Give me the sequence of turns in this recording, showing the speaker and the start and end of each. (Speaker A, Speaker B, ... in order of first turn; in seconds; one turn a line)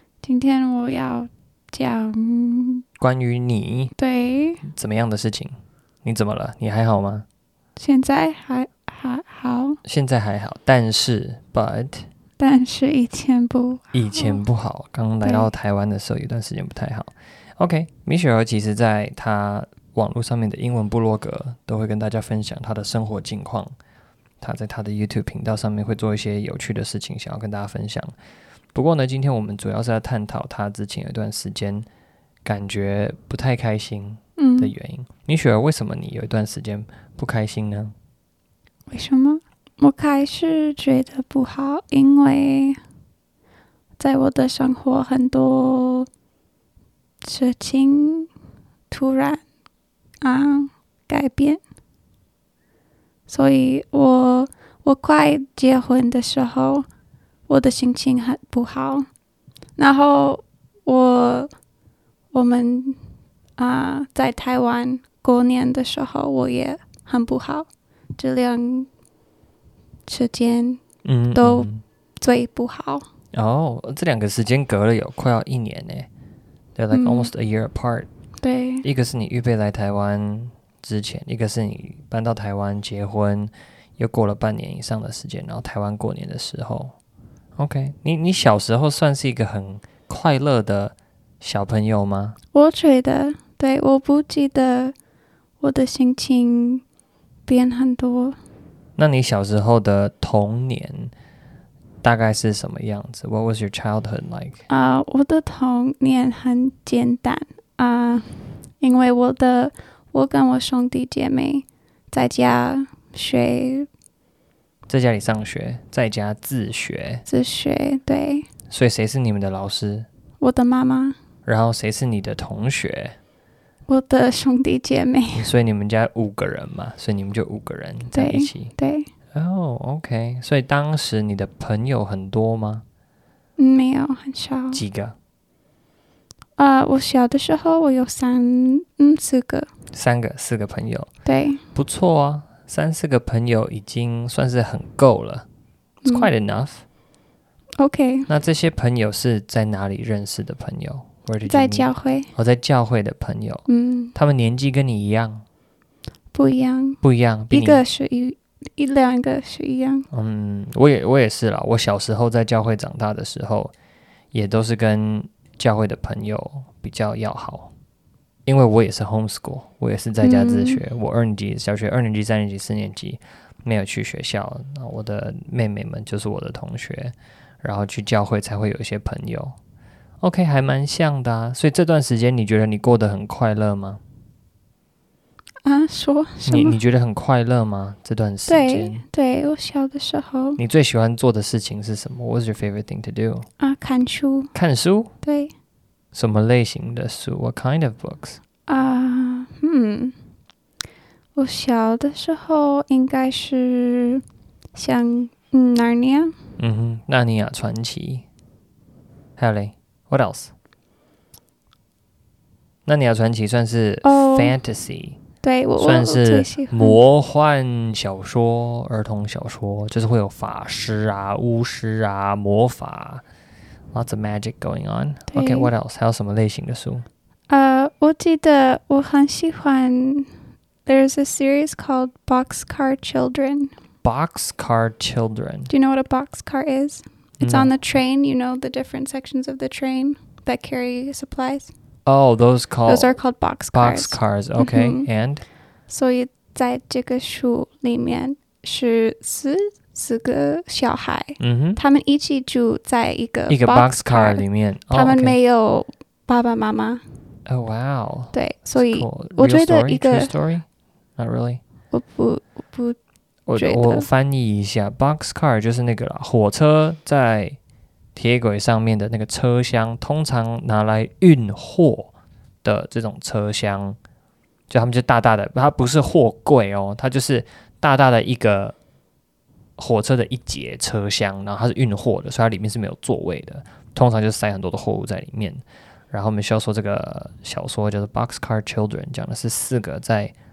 Speaker A: 0.2-2.8
Speaker B: 3.0-3.9
Speaker A: 4.0-4.6
Speaker B: 4.6-7.2
Speaker A: 7.8-9.8
Speaker B: 9.8-12.1
Speaker A: 12.4-14.4
Speaker B: 13.9-23.7
Speaker A: 15.2-15.5
Speaker B: 24.4-28.1
Speaker B: 28.7-31.9
Speaker B: 32.4-37.9
Speaker A: 34.4-34.7
Speaker A: 38.9-42.8
Speaker A: 44.0-46.1
Speaker A: 47.2-48.3
Speaker A: 48.9-49.4
Speaker A: 50.2-51.6
Speaker A: 53.3-56.9
Speaker A: 57.5-59.1
Speaker A: 59.8-61.5
Speaker A: 62.3-63.0
Speaker A: 63.6-68.9
Speaker A: 70.1-70.8
Speaker B: 71.0-71.8
Speaker A: 71.3-71.7
Speaker A: 72.2-73.0
Speaker B: 73.3-76.1
Speaker B: 76.8-78.1
Speaker A: 76.9-77.3
Speaker A: 78.4-78.8
Speaker B: 78.8-87.0
Speaker B: 87.6-92.4
Speaker A: 92.5-94.9
Speaker A: 95.6-96.8
Speaker A: 97.5-98.4
Speaker B: 99.0-101.1
Speaker B: 102.0-104.6
Speaker A: 104.7-113.9
Speaker B: 114.9-117.2
Speaker A: 117.3-118.5
Speaker B: 118.7-120.1
Speaker A: 120.4-121.2
Speaker B: 121.4-123.2
Speaker A: 123.9-125.5
Speaker B: 125.3-128.7
Speaker A: 128.1-129.1
Speaker B: 129.3-132.8
Speaker A: 133.6-134.8
Speaker B: 134.7-135.1
Speaker A: 136.6-139.7
Speaker B: 139.9-141.1
Speaker A: 141.2-141.6
Speaker B: 141.7-145.4
Speaker A: 146.0-146.3
Speaker B: 146.1-146.8
Speaker A: 147.8-148.3
Speaker B: 148.3-155.4
Speaker A: 151.4-152.3
Speaker A: 153.7-154.1
Speaker A: 156.3-160.1
Speaker B: 157.0-157.8
Speaker B: 160.1-163.7
Speaker B: 164.3-167.7
Speaker B: 168.4-179.6
Speaker A: 170.2-170.8
Speaker B: 180.2-184.0
Speaker A: 185.6-186.8
Speaker B: 186.4-189.0
Speaker A: 188.5-190.6
Speaker B: 190.6-193.5
Speaker A: 193.6-194.5
Speaker B: 194.5-195.1
Speaker A: 195.2-195.5
Speaker B: 196.1-198.4
Speaker A: 198.7-200.1
Speaker A: 201.3-204.2
Speaker A: 204.7-206.3
Speaker B: 206.6-208.2
Speaker B: 209.4-210.5
Speaker B: 212.8-215.2
Speaker A: 214.0-214.5
Speaker A: 215.4-217.0
Speaker B: 215.8-223.2
Speaker B: 223.9-227.1
Speaker A: 225.3-225.7
Speaker A: 227.5-230.3
Speaker A: 230.8-233.7
Speaker B: 234.0-235.7
Speaker A: 235.7-241.7
Speaker B: 237.4-237.7
Speaker B: 242.1-243.2
Speaker A: 242.9-245.1
Speaker B: 243.7-245.4
Speaker A: 245.9-257.0
Speaker B: 251.4-251.8
Speaker B: 253.5-255.3
Speaker B: 257.4-260.6
Speaker A: 258.3-260.3
Speaker B: 261.2-261.6
Speaker A: 261.9-263.0
Speaker B: 263.5-267.6
Speaker A: 263.6-264.1
Speaker B: 268.1-272.1
Speaker B: 272.6-274.0
Speaker B: 274.7-278.7
Speaker B: 279.8-290.3